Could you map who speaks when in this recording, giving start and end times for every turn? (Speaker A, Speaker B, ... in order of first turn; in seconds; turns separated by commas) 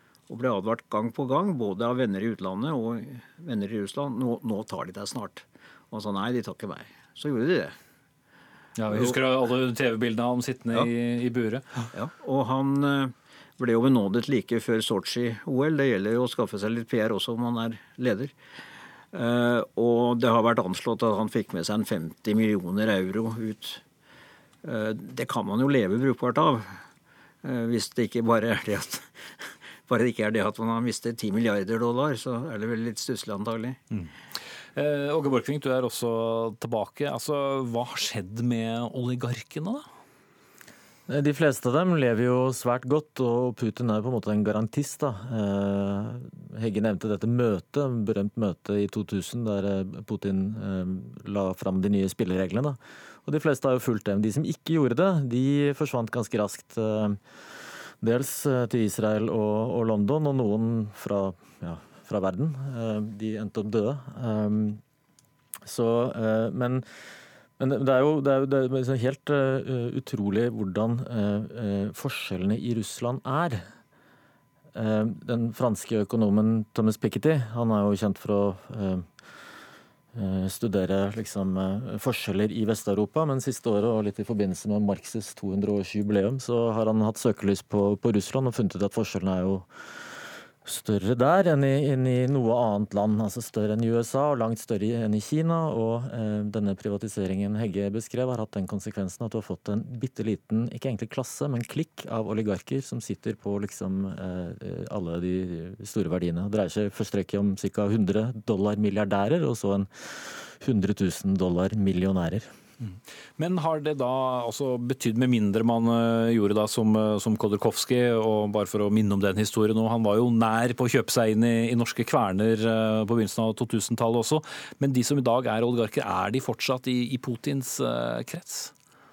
Speaker A: 0.3-7.8, Speaker B: 8.8-11.8, Speaker A: 11.9-18.3, Speaker A: 19.1-23.8, Speaker A: 24.6-26.8, Speaker A: 27.4-33.8, Speaker B: 34.8-39.9, Speaker C: 41.1-57.2, Speaker C: 58.0-64.8, Speaker C: 65.7-66.9, Speaker C: 67.6-73.7, Speaker C: 74.8-79.1, Speaker C: 80.1-89.7, Speaker C: 90.7-109.9, Speaker C: 110.6-112.5, Speaker B: 112.8-128.7